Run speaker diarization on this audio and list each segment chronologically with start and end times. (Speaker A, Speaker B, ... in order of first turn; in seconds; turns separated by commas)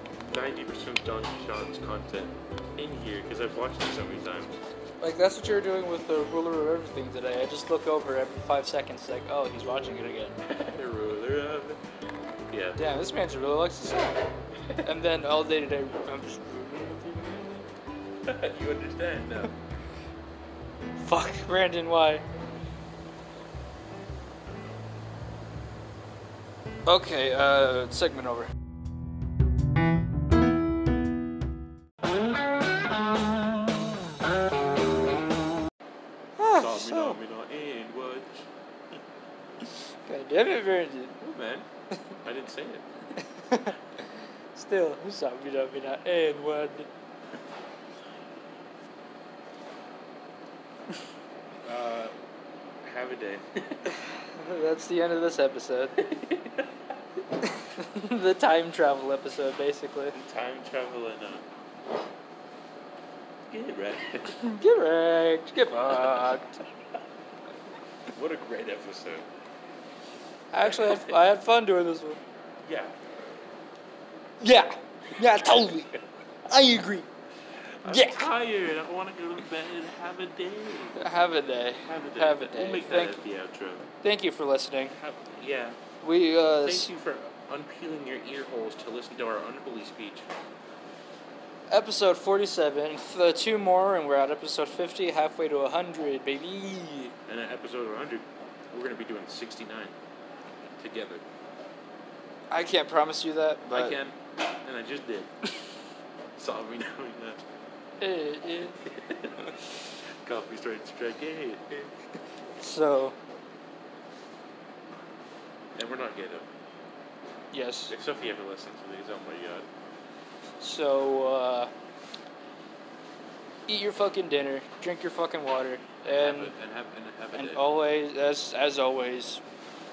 Speaker A: 0.3-4.5, Speaker B: 5.0-10.4, Speaker A: 10.4-11.8, Speaker A: 12.5-12.8, Speaker B: 12.8-14.3, Speaker B: 14.8-17.6, Speaker A: 18.3-19.5, Speaker B: 21.0-22.2, Speaker B: 26.9-28.5, Speaker B: 36.4-37.2, Speaker A: 36.5-38.5, Speaker B: 40.0-41.1, Speaker A: 41.2-41.7, Speaker A: 42.2-42.9, Speaker B: 43.4-43.8, Speaker B: 44.5-46.9, Speaker A: 51.6-52.1, Speaker A: 52.8-54.0, Speaker B: 54.3-56.0, Speaker A: 56.0-56.7, Speaker B: 57.4-60.1, Speaker A: 60.1-61.5, Speaker A: 63.5-64.5, Speaker B: 64.4-66.6, Speaker A: 65.7-66.4, Speaker A: 68.1-69.3, Speaker B: 70.5-72.2, Speaker A: 70.7-71.2, Speaker A: 72.6-73.0, Speaker B: 74.4-77.1, Speaker A: 77.8-81.1, Speaker B: 77.9-78.3, Speaker B: 81.0-83.2, Speaker A: 81.8-83.9, Speaker B: 84.0-85.0, Speaker A: 85.0-85.8, Speaker B: 86.0-86.9, Speaker A: 86.6-90.3, Speaker B: 91.7-97.1, Speaker A: 97.3-100.0, Speaker A: 100.7-101.2, Speaker B: 102.5-104.0, Speaker A: 103.7-105.3, Speaker A: 106.4-107.4, Speaker B: 108.0-108.8, Speaker A: 108.8-111.9, Speaker B: 112.6-113.2, Speaker A: 115.8-116.5, Speaker B: 117.5-118.0, Speaker A: 117.9-119.7, Speaker B: 120.6-121.7, Speaker B: 123.7-126.5, Speaker A: 126.0-127.6, Speaker B: 127.3-129.4